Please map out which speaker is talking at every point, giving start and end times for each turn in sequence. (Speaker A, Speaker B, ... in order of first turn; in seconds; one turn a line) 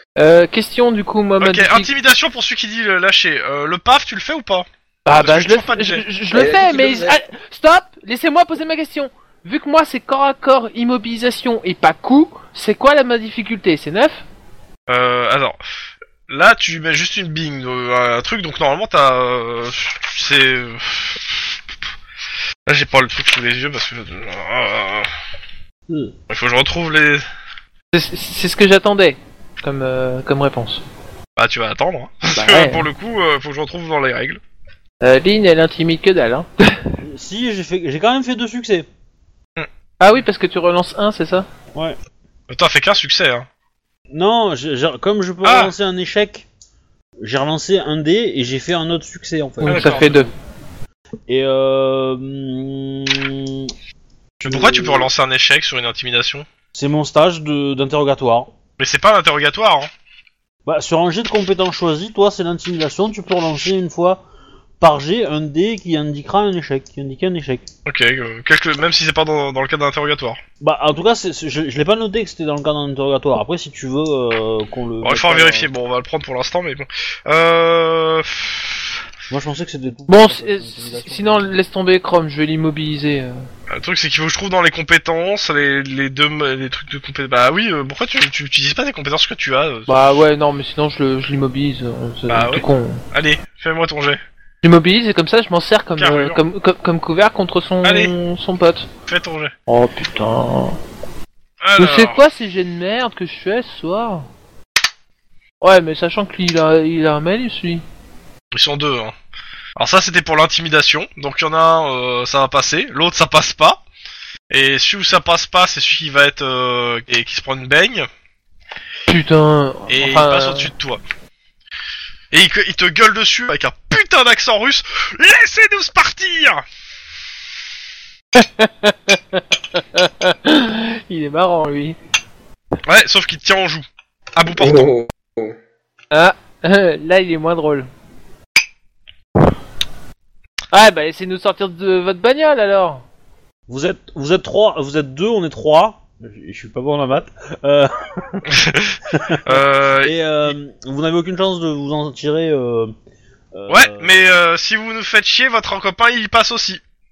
Speaker A: 0.2-1.9
Speaker B: 1.4-6.0
Speaker A: 5.0-14.2
Speaker C: 6.3-7.2
Speaker B: 14.9-15.6
Speaker B: 16.3-21.5
Speaker B: 22.6-25.1
Speaker D: 25.9-26.1
Speaker B: 26.3-27.2
Speaker A: 27.9-30.8
Speaker B: 31.4-34.4
Speaker A: 32.3-32.8
Speaker A: 35.0-36.9
Speaker D: 37.0-38.9
Speaker A: 40.0-41.5
Speaker B: 42.5-43.5
Speaker D: 44.1-46.5
Speaker B: 45.4-45.7
Speaker D: 47.2-50.2
Speaker A: 49.6-50.3
Speaker B: 49.6-50.3
Speaker D: 51.3-53.7
Speaker D: 54.4-55.1
Speaker B: 54.4-56.5
Speaker D: 56.7-58.5
Speaker B: 58.8-59.9
Speaker D: 60.6-64.2
Speaker D: 64.8-67.7
Speaker B: 67.9-70.4
Speaker D: 70.6-75.7
Speaker B: 75.0-79.0
Speaker D: 79.3-81.5
Speaker A: 80.1-83.4
Speaker B: 83.7-90.2
Speaker A: 89.9-93.0
Speaker B: 92.3-94.2
Speaker A: 94.6-98.9
Speaker B: 96.0-96.4
Speaker B: 97.8-98.1
Speaker B: 99.1-99.5
Speaker A: 99.7-100.8
Speaker B: 101.6-102.2
Speaker A: 101.8-104.3
Speaker A: 105.6-107.8
Speaker B: 108.5-109.1
Speaker B: 109.8-113.8
Speaker B: 114.5-118.1
Speaker A: 119.1-120.7
Speaker B: 119.9-121.0
Speaker B: 122.3-126.6
Speaker A: 128.3-132.0
Speaker B: 132.8-133.8
Speaker B: 134.3-134.9
Speaker C: 134.5-135.6
Speaker A: 136.1-137.9
Speaker A: 140.7-143.0
Speaker D: 143.7-148.5
Speaker B: 148.5-150.5
Speaker D: 149.1-152.9
Speaker D: 153.5-154.4
Speaker B: 153.7-156.8